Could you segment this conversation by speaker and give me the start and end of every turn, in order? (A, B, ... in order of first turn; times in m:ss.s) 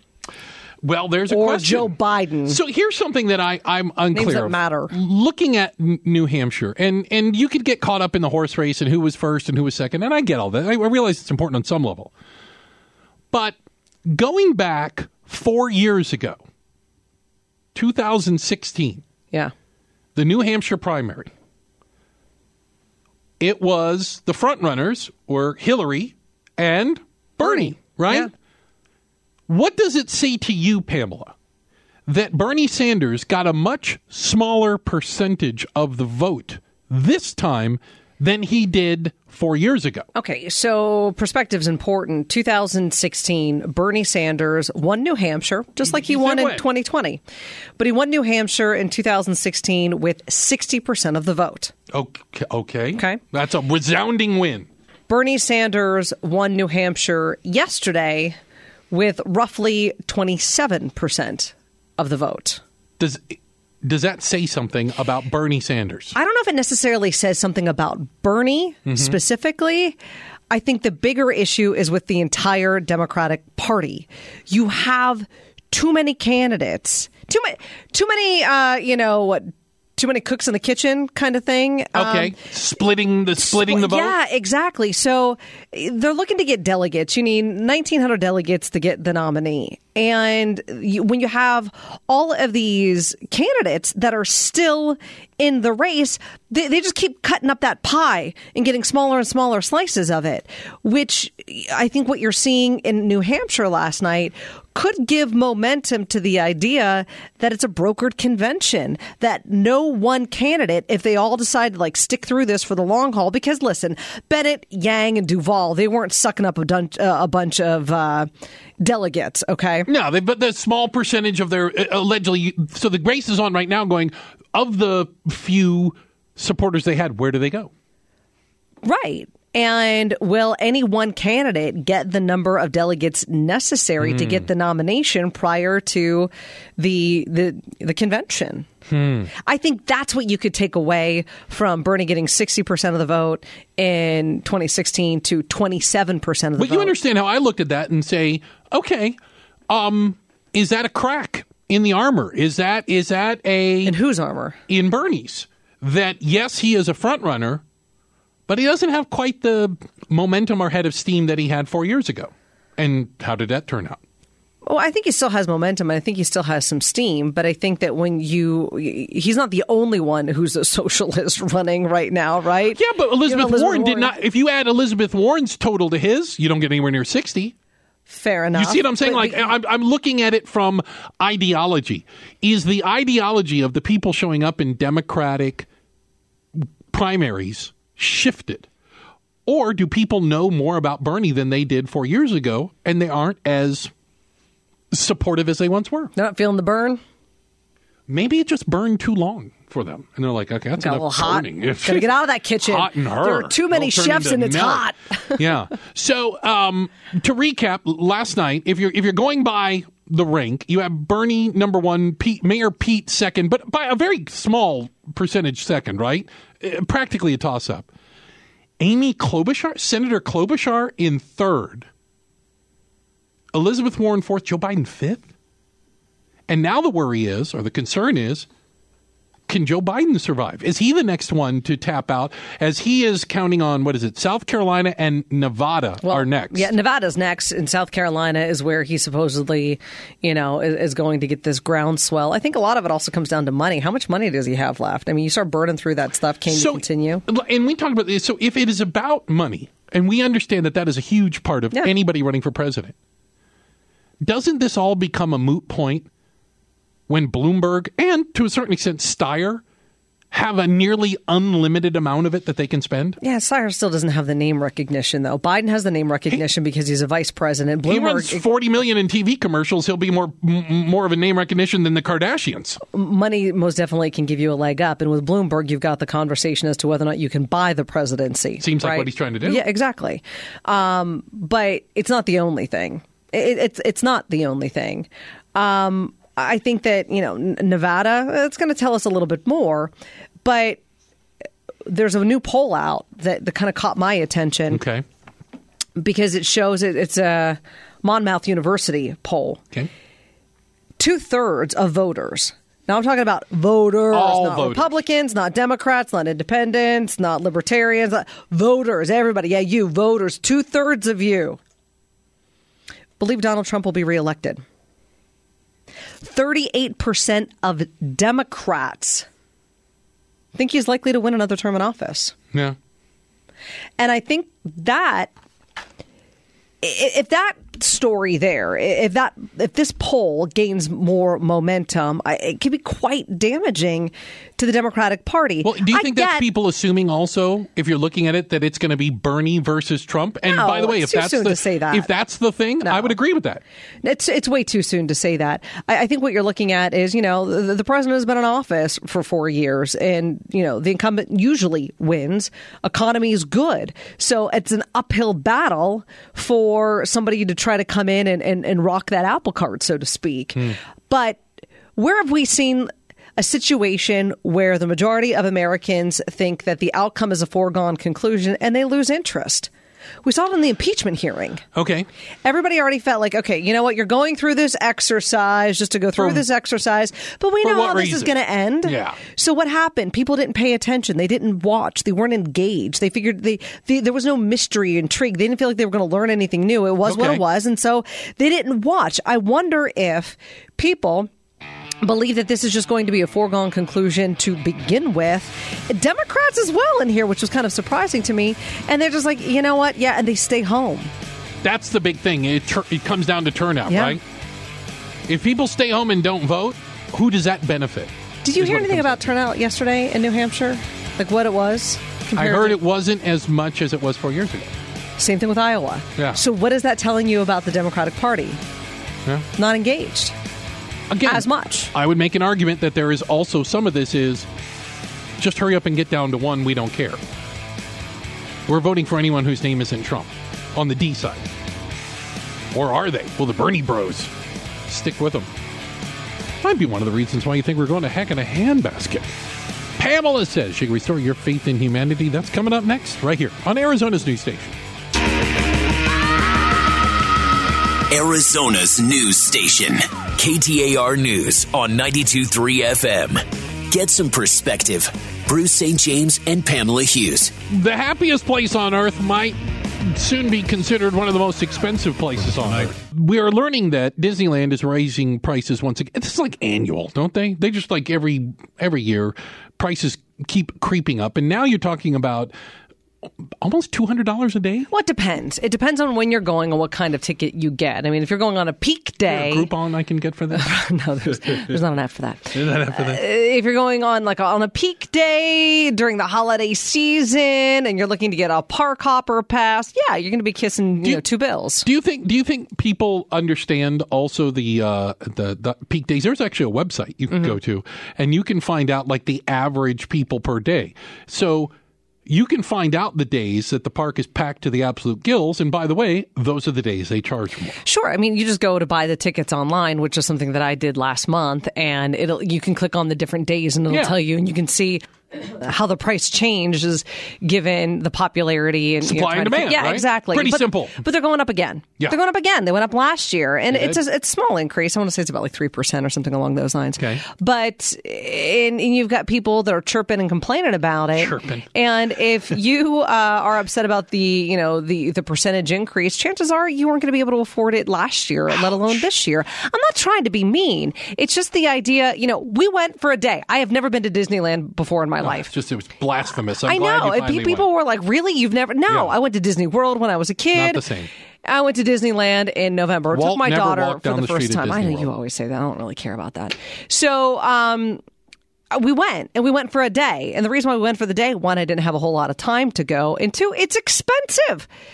0:00.8-0:01.9 A
0:01.3-0:02.6 B
0:02.5-0:12.1 A
0:04.1-0:04.9 B
0:13.3-0:16.4 A
0:17.7-0:19.0 A
0:20.1-0:21.3 A
0:23.4-0:28.3 A
0:27.4-0:28.3 B
0:29.5-0:31.3 A
0:32.1-0:40.1 A
0:40.1-0:47.2 B
0:45.8-0:46.7 A
0:47.8-0:51.7 B
0:51.9-0:54.7 A
0:55.1-0:58.4 B
0:58.9-1:02.6 B
1:03.0-1:06.1 A
1:06.1-1:10.0 B
1:08.8-1:09.2 A
1:10.5-1:22.4 B
1:21.9-1:24.2 A
1:23.4-1:58.3 B
1:58.8-1:59.9 B
1:59.9-2:07.7 A
2:08.8-2:18.7 B
2:14.0-2:14.5 A
2:18.9-2:19.3 A
2:19.4-2:26.9 B
2:26.6-2:29.2 A
2:29.7-2:33.9 A
2:33.8-2:34.6 B
2:34.7-2:37.6 A
2:38.5-2:44.0 A
2:44.6-2:54.1 B
2:52.7-2:57.5 A
2:58.1-2:59.4 B
2:58.5-3:05.7 A
3:06.6-3:08.7 A
3:09.4-3:13.9 A
3:14.9-3:16.1 A
3:16.2-3:17.0 B
3:18.1-3:22.1 A
3:20.8-3:25.4 B
3:22.6-3:37.9 A
3:38.8-3:41.9 A
3:43.5-3:45.3 A
3:46.5-3:48.5 A
3:49.5-3:56.7 A
3:56.0-4:07.2 B
4:06.5-4:12.9 A
4:14.2-4:16.1 A
4:17.1-4:19.6 A
4:20.3-4:23.2 A
4:23.2-4:28.4 B
4:27.8-4:32.8 A
4:32.9-4:49.9 B
4:38.6-4:39.6 A
4:50.4-4:50.8 B
4:51.8-4:54.8 B
4:54.7-4:55.0 A
4:56.0-4:59.6 B
5:01.0-5:11.6 B
5:04.1-5:04.9 A
5:13.2-5:14.6 B
5:16.2-5:19.3 B
5:20.5-5:22.3 B
5:24.0-5:25.3 B
5:26.8-5:36.4 B
5:35.6-5:43.6 A
5:40.5-5:42.1 B
5:42.8-5:43.1 B
5:44.0-6:01.4 B
6:02.0-6:09.7 B
6:10.2-6:11.6 B
6:11.7-6:12.1 A
6:12.4-6:31.3 B
6:16.2-6:16.4 A
6:17.6-6:19.2 A
6:27.0-6:27.4 A
6:32.0-6:41.1 B
6:41.6-6:44.2 A
6:43.9-6:44.2 B
6:45.3-6:49.3 A
6:48.4-6:52.8 B
6:52.3-6:54.8 A
6:55.2-6:58.6 B
6:59.6-7:00.3 B
7:01.1-7:04.5 A
7:01.2-7:01.9 B
7:05.4-7:07.2 A
7:08.7-7:11.5 A
7:12.7-7:14.3 A
7:14.9-7:15.5 A
7:16.6-7:19.3 A
7:20.0-7:24.8 A
7:28.1-7:37.5 C
7:37.7-7:52.5 A
7:53.2-7:54.9 A
7:54.9-7:59.7 B
7:59.3-8:00.7 A
8:00.5-8:11.9 B
8:01.3-8:01.8 A
8:02.5-8:03.2 A
8:11.8-8:21.7 A
8:22.2-8:27.8 A
8:27.8-9:05.5 B
8:33.9-8:34.1 A
8:39.0-8:41.0 A
8:43.7-8:44.0 A
8:47.0-8:47.2 A
8:51.2-8:51.7 A
8:58.5-8:59.1 A
9:05.2-9:07.6 A
9:06.6-9:10.8 B
9:08.9-9:09.2 A
9:10.5-9:11.1 A
9:11.4-9:18.0 B
9:13.1-9:15.1 A
9:18.7-9:24.7 B